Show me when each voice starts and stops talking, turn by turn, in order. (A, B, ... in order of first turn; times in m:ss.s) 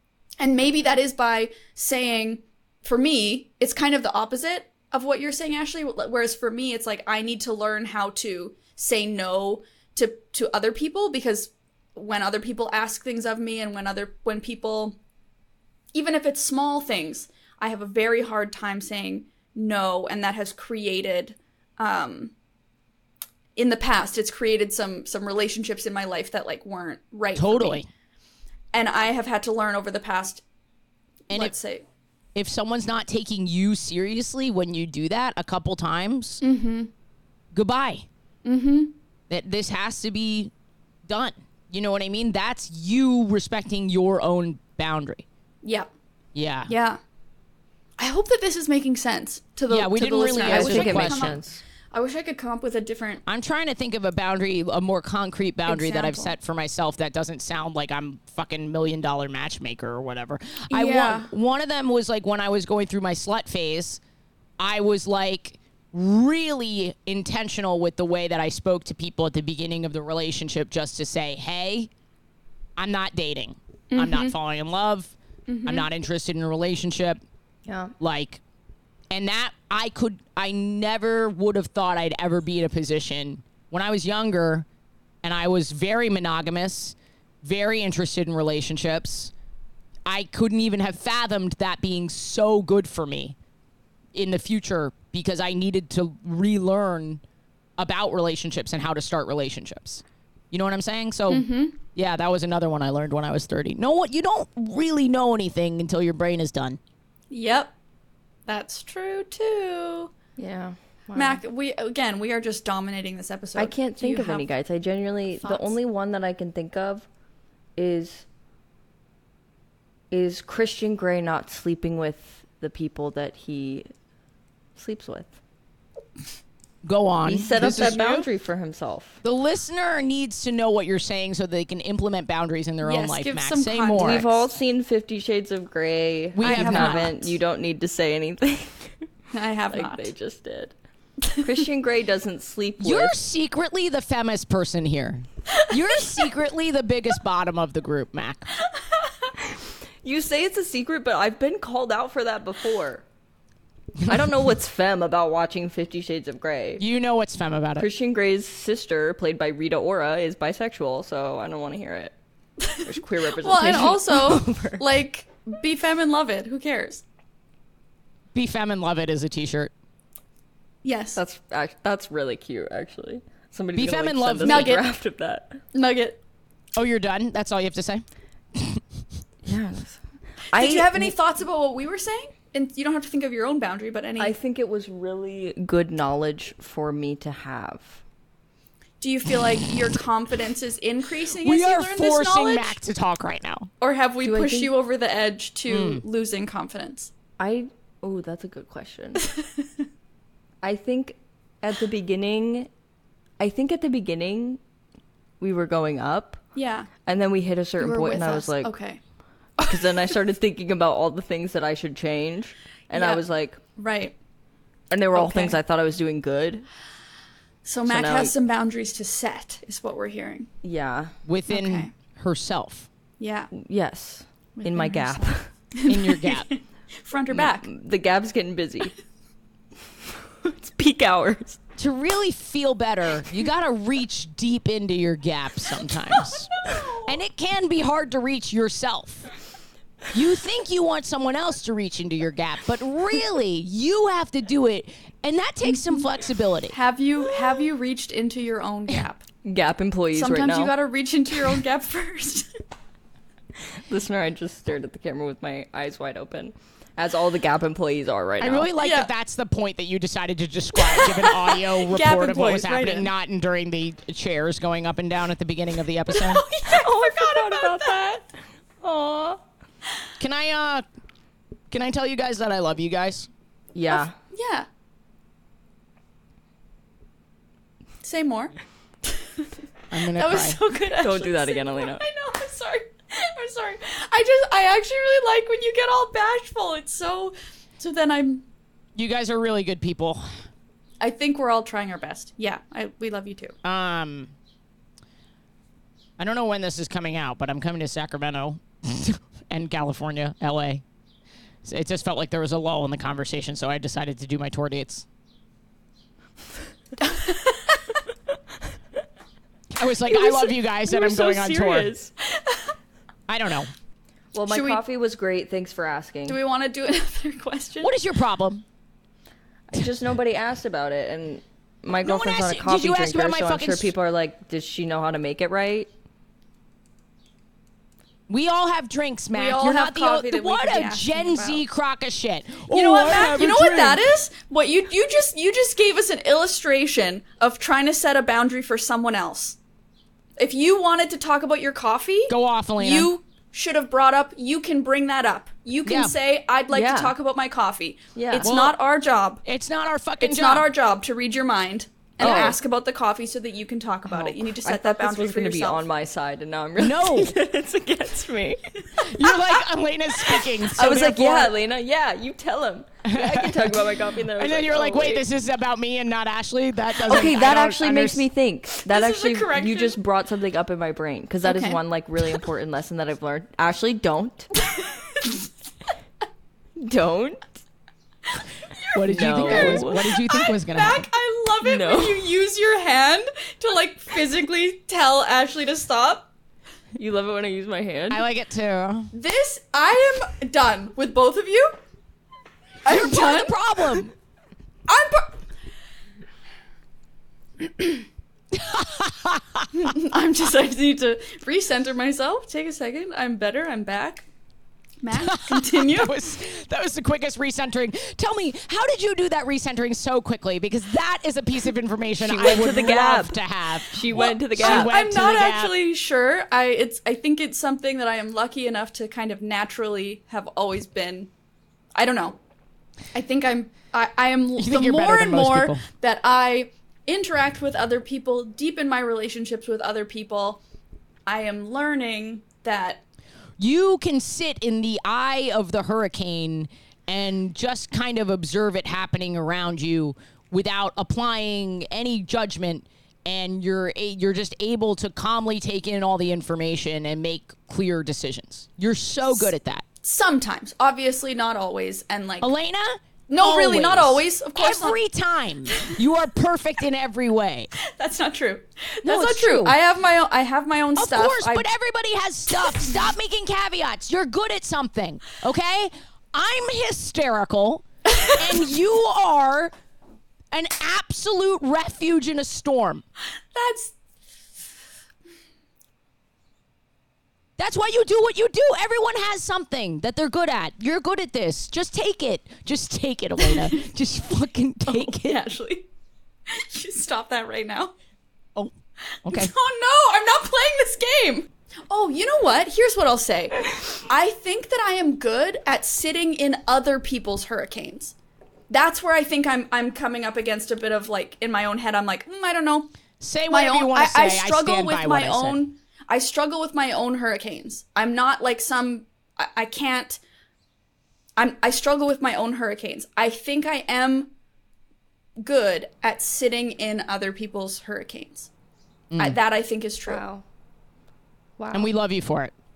0:00.4-0:15.0 A
0:15.9-0:22.3 A
0:23.6-0:27.8 A
0:27.4-0:27.9 B
0:28.7-0:30.4 A
0:31.3-0:31.8 A
0:32.3-0:36.4 B
0:36.4-0:36.9 A
0:37.5-0:38.0 B
0:38.4-0:38.9 A
0:39.3-0:40.5 B
0:41.0-0:45.2 B
0:45.6-0:45.9 A
0:46.3-0:46.7 B
0:46.7-0:47.0 A
0:48.0-0:53.2 A
0:49.7-0:51.4 B
0:50.4-0:51.6 C
0:53.2-1:04.0 B
0:55.6-0:56.3 A
1:00.7-1:01.3 A
1:04.6-1:11.9 B
1:12.8-1:15.1 B
1:13.9-1:14.3 A
1:15.5-1:15.9 A
1:15.6-1:17.2 B
1:17.6-1:17.9 C
1:18.0-1:18.4 B
1:19.1-1:24.6 B
1:25.2-1:29.3 B
1:30.1-1:33.4 B
1:34.1-1:37.2 B
1:37.8-1:46.8 B
1:41.3-1:41.8 A
1:47.3-1:47.7 A
1:48.5-1:50.1 A
1:50.4-1:51.4 C
1:51.1-1:54.5 A
1:53.6-1:57.1 C
1:55.4-1:55.7 A
1:57.8-1:58.2 C
2:00.1-2:03.9 C
2:04.8-2:05.3 C
2:06.8-2:08.3 B
2:07.2-2:09.2 C
2:07.8-2:08.1 A
2:09.2-2:14.2 B
2:12.8-2:14.5 A
2:14.0-2:19.0 C
2:16.4-2:17.1 B
2:16.4-2:17.3 A
2:19.3-2:20.1 A
2:19.7-2:20.7 C
2:21.2-2:21.5 A
2:21.4-2:23.2 C
2:22.8-2:28.5 B
2:30.0-2:33.0 C
2:34.0-2:36.8 C
2:36.8-2:37.9 B
2:37.8-2:42.1 C
2:42.8-2:44.8 C
2:43.4-2:47.0 A
2:48.3-2:49.7 B
2:50.8-2:51.2 A
2:51.2-2:55.6 C
2:53.7-2:54.8 B
2:54.4-2:54.8 A
2:55.7-2:56.2 A
2:56.8-2:58.0 B
2:58.5-2:58.8 B
2:59.4-3:00.0 C
3:00.5-3:01.1 C
3:00.5-3:04.3 A
3:04.2-3:08.0 C
3:09.0-3:12.8 A
3:11.4-3:13.7 B
3:13.8-3:17.1 A
3:14.2-3:14.7 C
3:15.7-3:16.0 B
3:17.4-3:19.3 C
3:20.6-3:22.7 C
3:23.4-3:24.6 C
3:25.4-3:26.4 C
3:26.5-3:26.9 A
3:27.0-3:28.7 C
3:27.8-3:29.0 A
3:29.6-3:30.0 A
3:29.6-3:33.6 C
3:32.9-3:33.2 A
3:33.8-3:34.2 A
3:34.9-3:36.6 C
3:35.1-3:35.6 A
3:37.6-3:40.5 A
3:37.9-3:38.3 C
3:40.6-3:41.1 C
3:41.3-3:42.9 B
3:41.5-3:41.9 A
3:43.2-3:43.5 A
3:43.5-3:45.5 C
3:44.6-3:47.7 A
3:45.9-3:46.5 B
3:47.3-3:48.9 C
3:50.4-3:51.6 C
3:51.8-3:56.5 B
3:57.0-3:59.3 B
4:00.1-4:06.7 B
4:05.7-4:06.0 A
4:06.7-4:09.2 A
4:09.4-4:10.7 C
4:10.1-4:12.5 A
4:13.9-4:18.7 C
4:18.4-4:26.4 B
4:18.8-4:19.1 A
4:20.8-4:23.1 A
4:26.1-4:28.1 A
4:26.6-4:29.4 C
4:30.2-4:30.8 B
4:31.7-4:33.3 B
4:33.7-4:34.1 C
4:33.9-4:34.6 A
4:38.0-4:38.5 A
4:39.9-4:40.6 B
4:40.1-4:48.4 A
4:40.9-4:42.0 C
4:49.0-4:50.2 B
4:51.0-4:53.5 A
4:53.6-4:54.3 B
4:56.2-5:00.8 B
5:01.6-5:05.0 B
5:07.1-5:07.8 A
5:09.8-5:11.9 B
5:10.8-5:12.1 C
5:13.3-5:13.7 B
5:14.3-5:16.4 C
5:14.5-5:14.8 A
5:16.3-5:17.9 A
5:17.8-5:18.6 B
5:19.7-5:25.9 C
5:22.0-5:23.9 B
5:28.3-5:34.0 B
5:29.3-5:31.6 A
5:32.7-5:39.6 A
5:40.4-5:49.4 A
5:42.3-5:43.1 B
5:45.8-5:46.1 B
5:46.7-5:47.1 C
5:48.1-5:48.5 C
5:48.4-5:48.8 B
5:49.4-5:50.7 B
5:50.2-5:55.8 A
5:52.2-5:52.6 C
5:54.0-5:58.6 C
5:56.8-5:57.3 B
5:59.0-6:01.5 B
6:00.6-6:05.2 C
6:03.0-6:03.8 B
6:04.3-6:08.2 B
6:07.0-6:14.5 C
6:08.9-6:10.0 A
6:11.4-6:11.8 A
6:16.8-6:17.5 C
6:18.9-6:21.0 B
6:19.1-6:20.0 C
6:19.2-6:26.3 A
6:21.6-6:22.3 C
6:27.0-6:28.2 C
6:28.1-6:29.1 B
6:29.1-6:31.8 A
6:32.8-6:34.0 A
6:32.8-6:34.1 B
6:34.9-6:35.4 A
6:37.6-6:38.0 A
6:38.5-6:39.7 B
6:39.7-6:44.2 A
6:45.0-6:46.3 A
6:45.1-6:55.7 B
6:52.2-6:54.9 C
6:54.1-7:01.3 A
7:01.9-7:02.4 A
7:03.1-7:10.6 A
7:04.6-7:05.8 B
7:11.2-7:13.0 A
7:13.6-7:29.8 B
7:30.0-7:32.5 A
7:32.4-7:37.7 B
7:33.3-7:35.0 A
7:37.8-7:41.7 A
7:39.0-7:39.8 B
7:41.0-7:49.7 B
7:42.6-7:42.9 A
7:50.5-7:53.0 B
7:53.5-7:53.9 A
7:57.6-8:05.4 B
8:03.4-8:03.7 A
8:04.9-8:05.9 A
8:06.5-8:07.9 A
8:09.2-8:09.5 B
8:09.3-8:18.1 A
8:18.7-8:22.9 A
8:23.2-8:25.6 B
8:23.5-8:30.2 A
8:31.4-8:34.3 A
8:35.4-8:38.5 A
8:39.1-8:39.4 B
8:39.2-8:40.2 A
8:40.1-8:40.4 C
8:41.6-8:41.9 C
8:41.7-8:42.5 B